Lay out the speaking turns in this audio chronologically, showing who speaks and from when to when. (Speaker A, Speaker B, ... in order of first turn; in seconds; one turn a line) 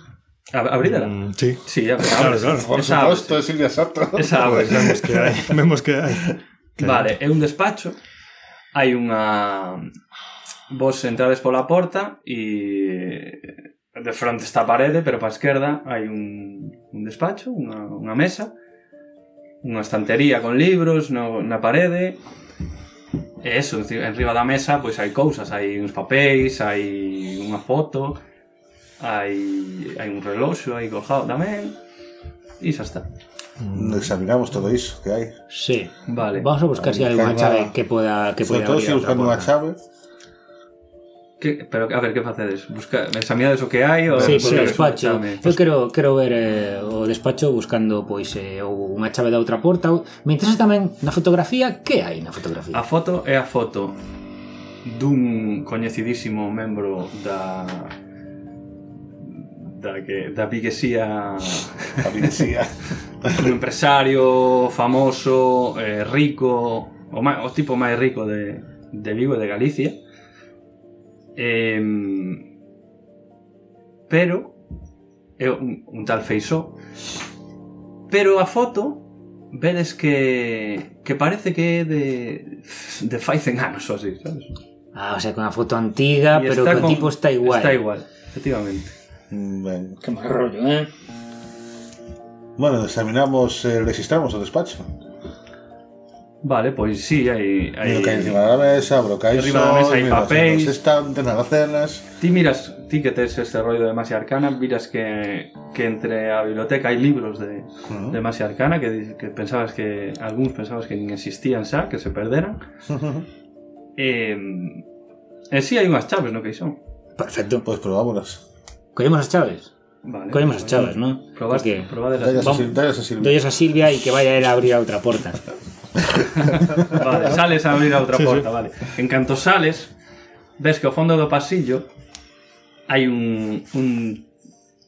Speaker A: 0.5-3.4
Speaker B: 0.8-2.8
Speaker C: 2.3-5.5
Speaker A: 4.2-5.0
Speaker B: 4.3-7.1
Speaker A: 6.8-8.0
Speaker A: 8.7-9.9
Speaker A: 10.7-18.5
Speaker A: 19.6-22.2
Speaker A: 23.4-28.2
Speaker A: 29.0-31.8
Speaker A: 32.6-33.1
Speaker B: 33.6-34.1
Speaker C: 33.7-35.3
Speaker D: 35.5-39.5
Speaker A: 36.1-36.5
Speaker C: 36.8-37.7
Speaker C: 38.4-39.8
Speaker A: 41.4-45.6
Speaker B: 44.2-44.8
Speaker D: 44.2-52.8
Speaker A: 52.7-54.0
Speaker A: 54.9-58.0
Speaker A: 59.3-62.4
Speaker C: 62.0-63.6
Speaker A: 63.3-70.0
Speaker A: 71.4-72.4
Speaker A: 74.1-74.5
Speaker A: 75.4-76.8
Speaker A: 78.1-84.5
Speaker D: 85.0-87.8
Speaker A: 86.3-88.9
Speaker C: 89.3-90.0
Speaker D: 90.0-90.9
Speaker C: 92.6-94.9
Speaker A: 96.4-98.4
Speaker C: 97.8-102.1
Speaker A: 99.3-100.8
Speaker A: 102.2-112.6
Speaker C: 107.9-108.2
Speaker C: 112.9-113.3
Speaker A: 114.0-114.8
Speaker A: 115.5-116.8
Speaker D: 117.2-117.7
Speaker C: 117.7-118.4
Speaker D: 119.0-119.7
Speaker A: 120.0-122.7
Speaker D: 120.3-125.4
Speaker C: 122.2-123.4
Speaker A: 126.2-129.9
Speaker B: 128.1-128.5
Speaker A: 130.6-131.9
Speaker A: 132.9-134.3